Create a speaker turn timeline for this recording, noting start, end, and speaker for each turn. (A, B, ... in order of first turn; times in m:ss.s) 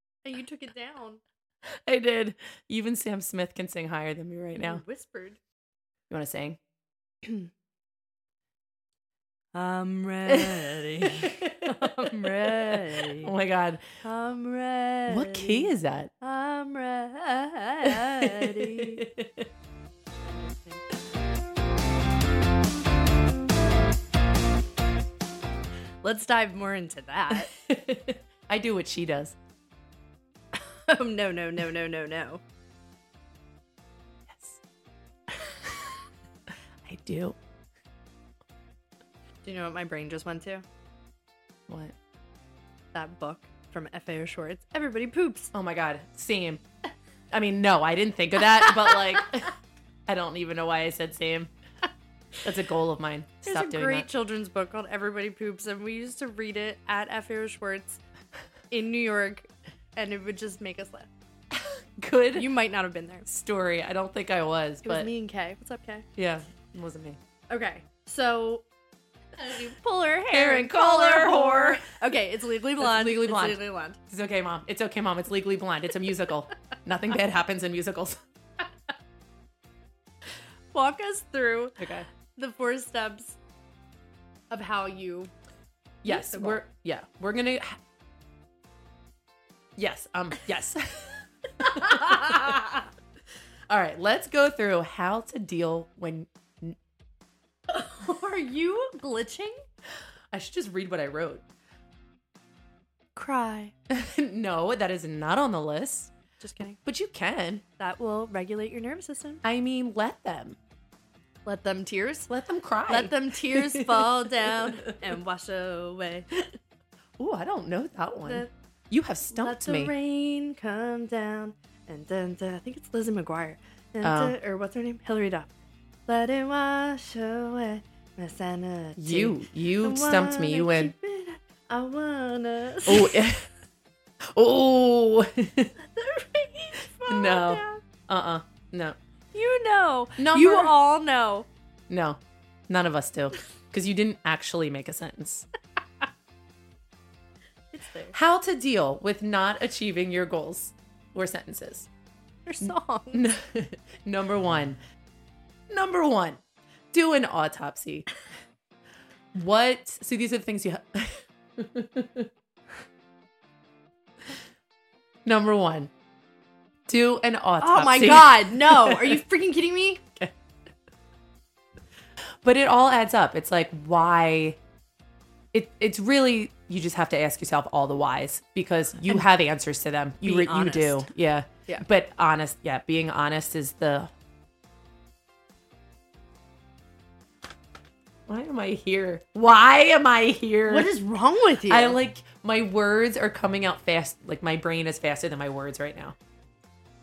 0:00.2-0:01.2 A
0:01.8-0:04.8 B
0:04.6-0:05.4 A
0:06.1-0:06.6 B
0:09.5-0:13.3 A
0:11.0-0:13.8 B
0:14.0-0:19.0 A
0:15.1-0:16.1 B
0:17.8-0:19.5 B
0:20.2-0:20.9 A
0:26.0-0:27.5 A
0:27.3-0:29.4 B
0:30.6-0:32.4 A
0:34.3-0:34.6 B
0:35.4-0:35.8 B
0:36.8-0:37.4 B
0:39.4-0:40.6 A
0:41.7-0:41.9 B
0:42.9-0:45.5 A
0:45.5-0:46.6 B
0:47.3-0:49.5 B
0:48.6-0:49.0 A
0:50.1-0:51.5 B
0:52.4-0:54.1 B
0:53.4-0:58.0 A
0:58.7-1:01.1 A
1:01.5-1:02.5 B
1:02.3-1:03.3 A
1:03.3-1:05.1 B
1:04.8-1:06.0 A
1:06.2-1:07.2 B
1:07.5-1:08.6 A
1:09.4-1:14.0 A
1:10.3-1:11.9 B
1:12.8-1:18.2 B
1:20.7-1:21.8 A
1:21.8-1:22.1 B
1:22.3-1:23.4 A
1:24.5-1:25.3 A
1:26.0-1:27.8 B
1:26.0-1:26.6 A
1:29.8-1:32.8 B
1:31.8-1:32.7 A
1:33.7-1:36.8 B
1:37.7-1:39.6 A
1:40.3-1:41.4 B
1:43.1-1:43.7 A
1:43.9-1:46.1 B
1:46.4-1:46.8 A
1:46.8-1:47.6 B
1:47.8-1:49.4 A
1:49.4-1:50.6 B
1:51.4-1:52.3 A
1:52.3-1:54.1 B
1:52.9-1:56.3 A
1:57.2-1:59.9 B
1:58.2-1:58.5 A
1:59.3-2:05.5 A
2:04.0-2:04.3 B
2:06.1-2:13.3 A
2:09.0-2:10.9 B
2:12.9-2:13.4 B
2:14.3-2:15.7 B
2:15.8-2:17.8 A
2:17.1-2:19.0 B
2:19.3-2:21.5 A
2:20.2-2:20.7 B
2:21.9-2:25.5 B
2:27.7-2:28.1 A
2:28.1-2:31.9 B
2:32.4-2:33.2 A
2:32.6-2:34.8 B
2:35.7-2:36.4 B
2:36.9-2:38.1 B
2:39.3-2:42.3 B
2:45.2-2:45.9 B
2:46.9-2:49.2 B
2:47.6-2:50.0 A
2:52.4-2:54.6 B
2:55.5-3:04.1 B
3:00.2-3:01.0 A
3:08.3-3:10.9 B
3:10.7-3:12.0 A
3:11.6-3:16.1 B